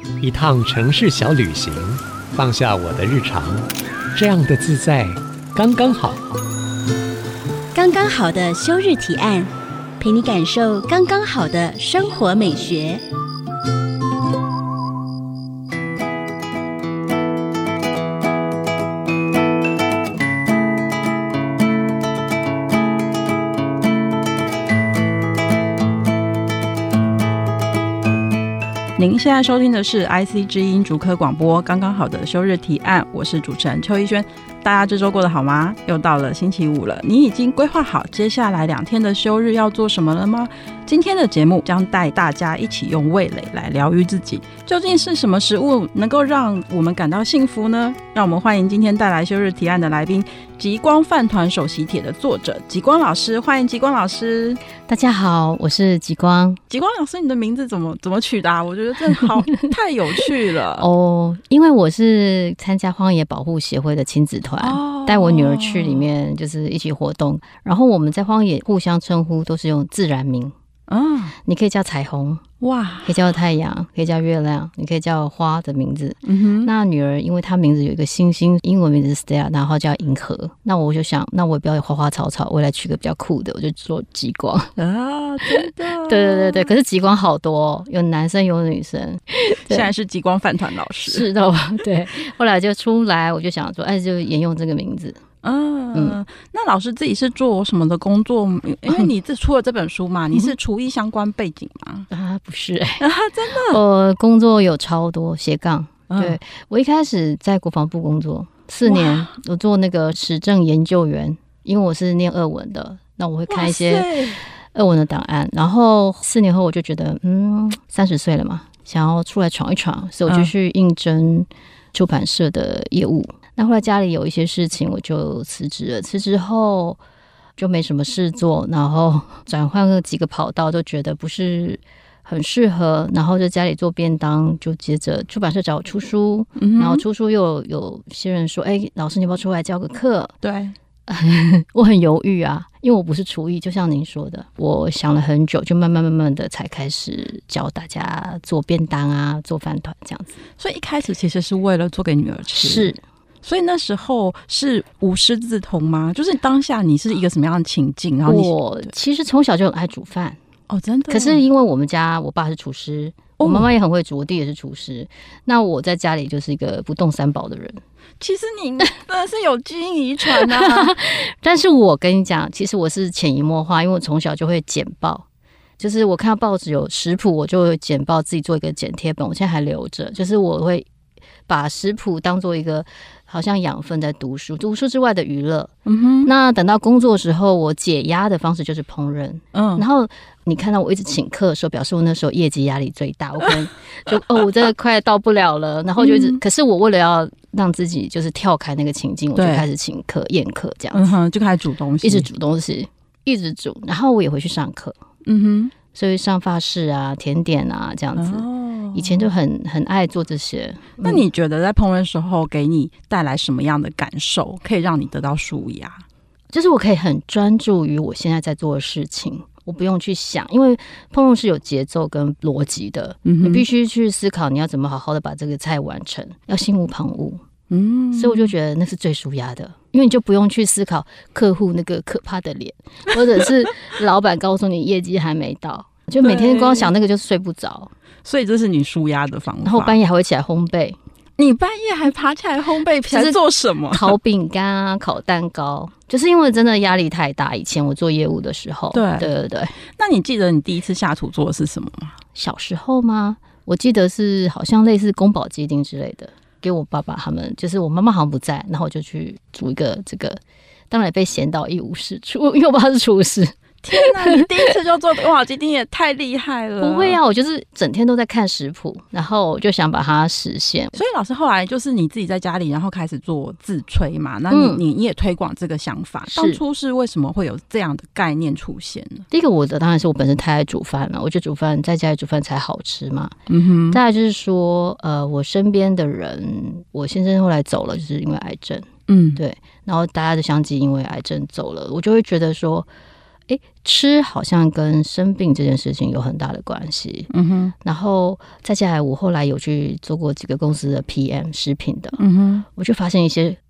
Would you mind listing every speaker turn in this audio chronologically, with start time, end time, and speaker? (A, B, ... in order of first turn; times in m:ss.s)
0:00.2-0:06.2 A
0:07.7-0:13.0 B
0:29.0-0:54.6 C
0:54.9-0:56.6 D
0:56.7-1:00.9 C
1:00.8-1:10.5 D
1:04.6-1:06.1 C
1:10.9-1:11.4 C
1:11.4-1:12.4 D
1:12.6-1:13.3 C
1:13.0-1:24.7 D
1:16.2-1:16.7 C
1:24.8-1:26.7 C
1:25.4-1:29.9 D
1:29.7-1:31.3 C
1:31.0-1:35.2 D
1:35.4-1:42.1 C
1:42.1-1:43.0 D
1:43.0-1:43.8 C
1:43.7-1:54.1 D
1:46.1-1:46.4 C
1:48.8-1:49.4 C
1:53.5-1:54.4 C
1:54.6-2:07.0 D
2:00.3-2:00.5 C
2:07.6-2:20.3 D
2:16.6-2:17.0 C
2:20.4-2:20.8 C
2:21.1-2:30.4 D
2:30.6-2:32.9 C
2:32.6-2:33.0 D
2:33.4-2:38.9 C
2:38.3-2:40.4 D
2:40.7-2:41.4 C
2:41.1-2:47.8 D
2:43.4-2:43.7 C
2:48.2-2:50.9 C
2:50.3-2:55.2 D
2:55.8-3:00.9 D
3:01.5-3:05.7 D
3:05.9-3:06.3 C
3:06.2-3:21.1 D
3:09.5-3:09.8 C
3:13.4-3:14.2 C
3:16.0-3:16.4 C
3:19.4-3:19.7 C
3:20.9-3:22.3 C
3:22.0-3:25.0 D
3:25.2-3:25.7 C
3:25.9-3:31.2 D
3:28.2-3:29.3 C
3:31.0-3:36.0 C
3:36.5-3:47.4 D
3:43.3-3:43.6 C
3:47.7-3:48.5 C
3:48.2-3:57.9 D
3:56.2-3:56.9 C
3:58.2-4:00.0 C
3:59.6-4:01.0 D
4:01.4-4:04.2 C
4:03.1-4:03.4 D
4:03.9-4:09.8 D
4:08.9-4:09.3 C
4:09.9-4:12.2 C
4:12.4-4:24.5 D
4:23.8-4:27.2 C
4:26.8-4:31.0 D
4:30.9-4:39.3 C
4:34.5-4:34.8 D
4:36.3-4:36.6 D
4:39.3-4:43.3 D
4:43.5-4:44.0 C
4:43.9-4:52.9 D
4:49.1-4:49.4 C
4:53.5-4:57.3 D
4:57.3-4:57.7 C
4:57.8-5:02.2 D
5:02.2-5:02.7 C
5:02.8-5:03.6 D